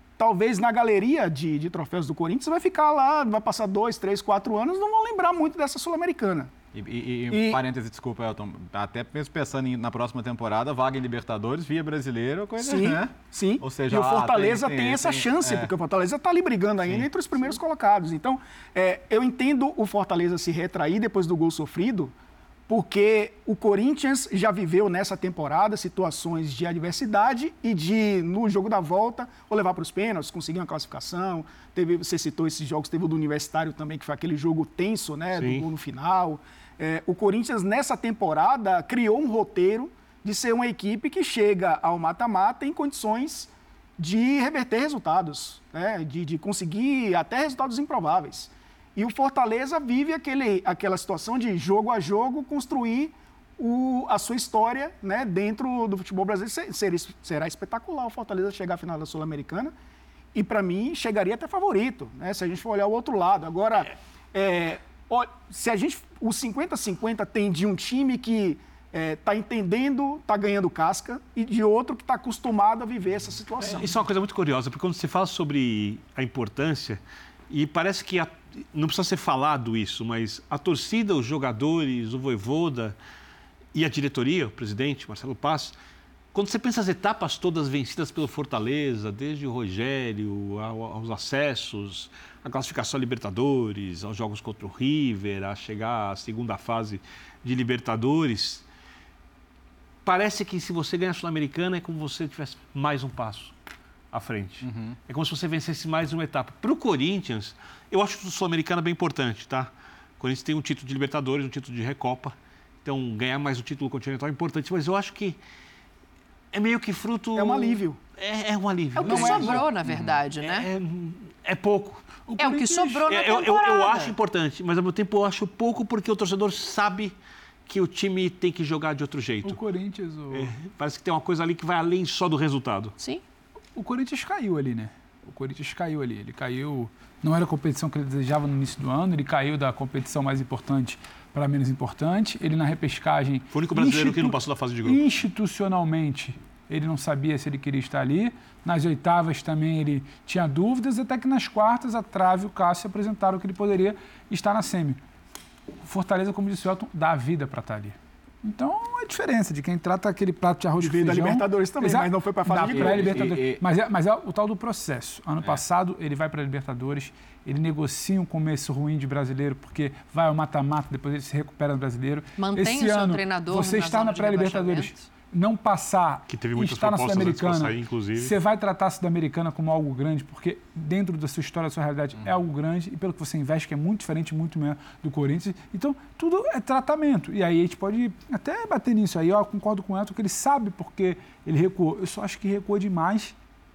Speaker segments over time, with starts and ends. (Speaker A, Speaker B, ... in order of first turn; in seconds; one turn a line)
Speaker A: 0.2-6.5
Speaker B: 6.7-15.7
Speaker A: 7.3-7.6
Speaker A: 12.6-22.1
Speaker B: 16.8-17.6
Speaker A: 22.7-59.7
Speaker C: 35.3-35.7
Speaker A: 60.3-74.0
Speaker C: 73.6-83.0
Speaker C: 83.7-85.8
Speaker C: 86.3-98.6
Speaker C: 100.0-103.5
Speaker C: 104.1-115.4
Speaker B: 104.6-105.0
Speaker C: 116.5-119.6
Speaker A: 117.3-118.0
Speaker A: 118.9-119.6
Speaker D: 119.0-120.7
Speaker C: 120.4-122.0
Speaker E: 122.3-123.0
Speaker D: 122.4-124.1
Speaker C: 123.1-127.1
Speaker C: 127.7-129.6
Speaker E: 129.4-130.5
Speaker C: 130.3-132.9
Speaker E: 133.7-155.0
Speaker C: 143.5-145.0
Speaker E: 155.8-193.3
Speaker A: 160.8-163.2
Speaker B: 162.6-163.6
Speaker D: 172.4-175.0
Speaker C: 176.3-178.3